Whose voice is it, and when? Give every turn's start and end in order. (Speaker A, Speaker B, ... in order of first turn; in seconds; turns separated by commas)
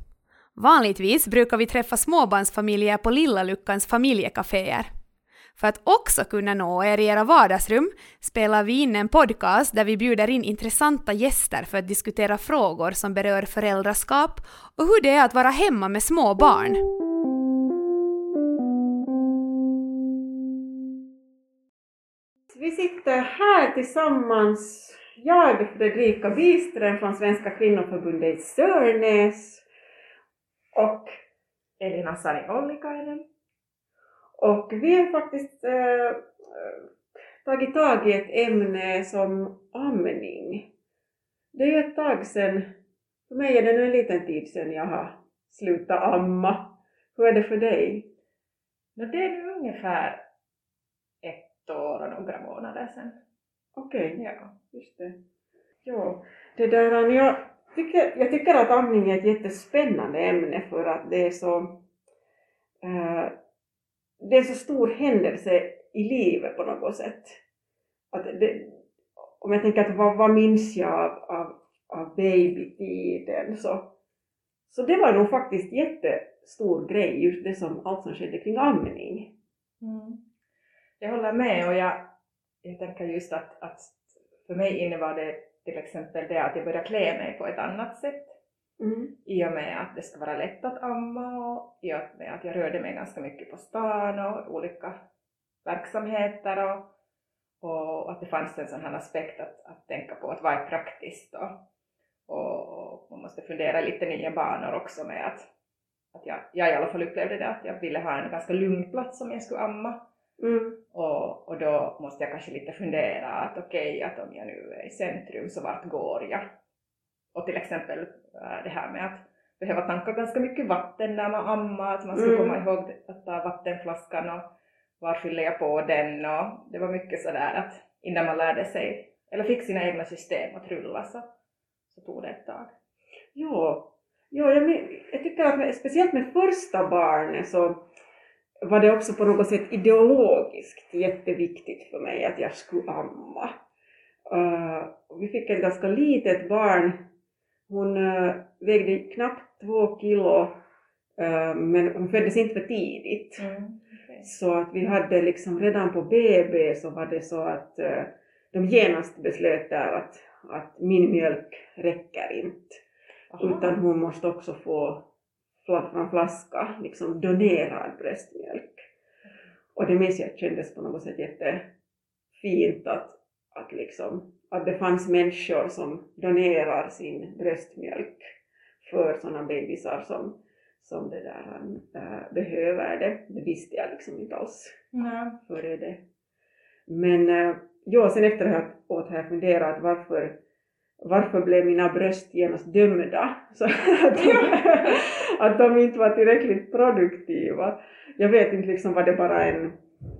Speaker A: 0.6-4.9, Speaker A: 5.6-16.8, Speaker B: 22.5-29.6, Speaker B: 30.7-31.1, Speaker C: 31.8-33.2, Speaker B: 34.4-36.8, Speaker B: 37.4-40.7, Speaker B: 41.5-42.7, Speaker B: 43.3-48.1, Speaker C: 49.0-50.2, Speaker C: 51.2-53.2, Speaker B: 53.7-54.2, Speaker C: 54.2-54.5, Speaker B: 54.7-55.2, Speaker B: 55.8-61.8, Speaker B: 62.8-63.3, Speaker B: 64.2-67.4, Speaker B: 68.1-68.8, Speaker B: 69.4-73.9, Speaker B: 74.7-79.3, Speaker C: 79.8-80.2, Speaker C: 81.0-82.0, Speaker C: 82.6-88.3, Speaker B: 88.8-89.1, Speaker C: 89.2-95.0, Speaker C: 95.6-96.9, Speaker C: 97.6-101.6, Speaker C: 102.3-105.4, Speaker C: 106.1-110.0, Speaker B: 110.4-110.8, Speaker C: 110.9-116.4, Speaker C: 117.3-124.4, Speaker B: 122.1-122.6, Speaker C: 125.0-131.3, Speaker C: 131.9-132.7, Speaker B: 133.3-137.8, Speaker B: 138.6-143.5, Speaker B: 144.3-147.0, Speaker B: 147.7-150.5, Speaker B: 151.2-153.4, Speaker C: 153.4-154.3, Speaker B: 154.2-162.8, Speaker C: 163.3-163.7, Speaker B: 163.4-165.0, Speaker B: 165.6-168.9, Speaker B: 169.7-171.7, Speaker B: 172.4-184.8, Speaker C: 184.9-185.4, Speaker B: 185.5-186.0, Speaker B: 186.9-190.4, Speaker B: 191.0-199.8, Speaker C: 194.2-195.0